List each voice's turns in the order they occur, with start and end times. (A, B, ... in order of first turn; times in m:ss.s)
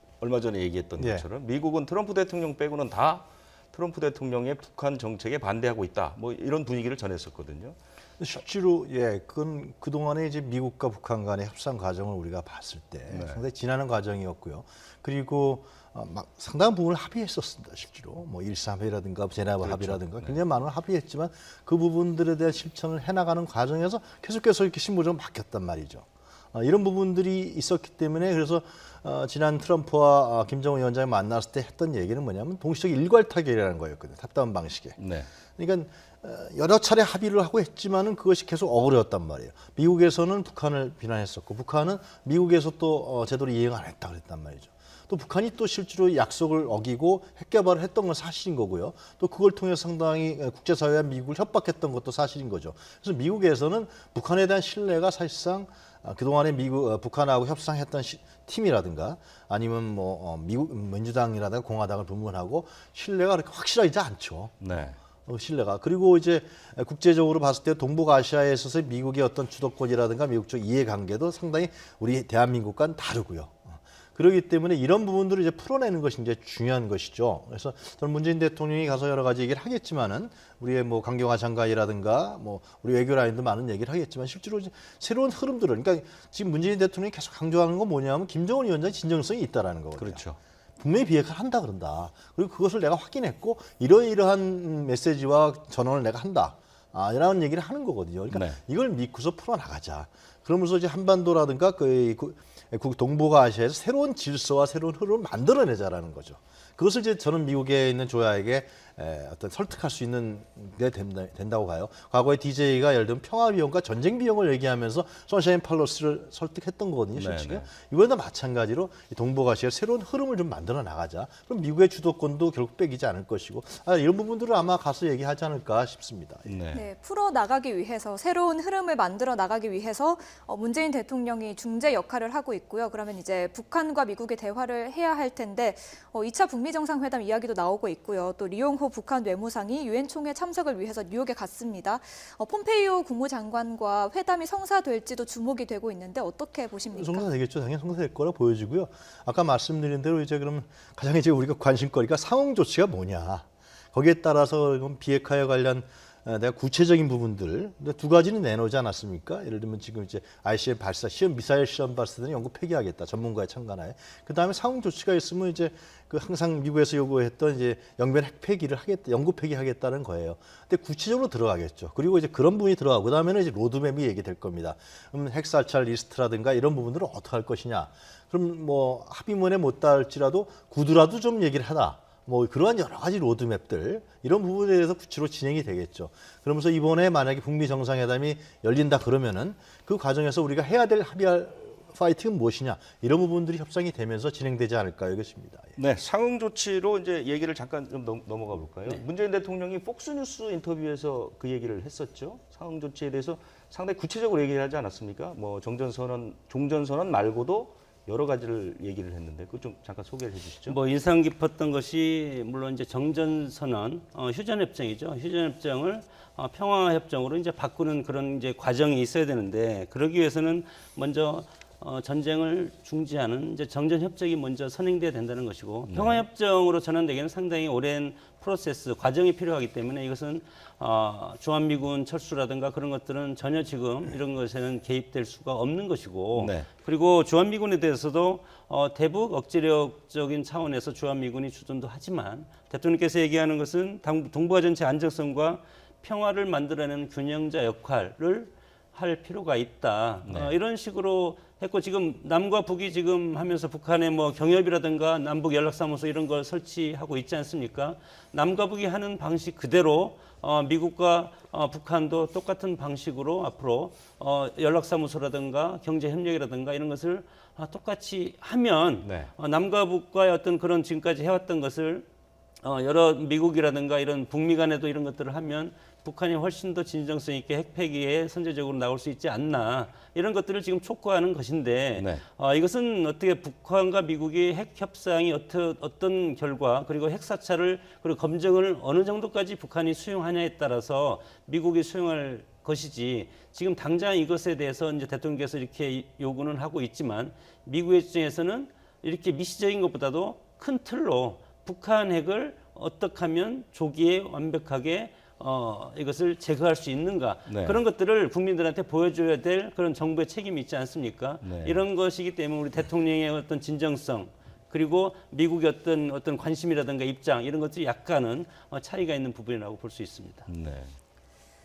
0:00.2-0:07.8 A
0:01.0-0:01.2 B
0:08.2-0:35.0 B
0:13.1-0:13.4 A
0:19.6-0:20.4 A
0:35.0-0:35.3 A
0:35.6-1:04.5 B
1:04.6-1:05.0 A
1:05.2-1:30.2 B
1:30.0-1:30.4 A
1:30.8-2:06.5 B
1:38.3-1:38.6 A
1:57.1-1:57.7 A
2:06.4-2:06.8 A
2:06.7-2:27.2 C
2:26.9-3:15.7 B
3:15.8-3:30.8 A
3:30.7-4:32.0 D
3:45.9-3:46.2 A
3:56.3-3:56.7 A
4:10.2-4:10.5 A
4:29.0-4:29.3 A
4:32.6-5:20.5 D
4:42.0-4:42.2 A
5:07.5-5:07.8 A
5:11.4-5:11.8 A
5:20.5-5:21.0 A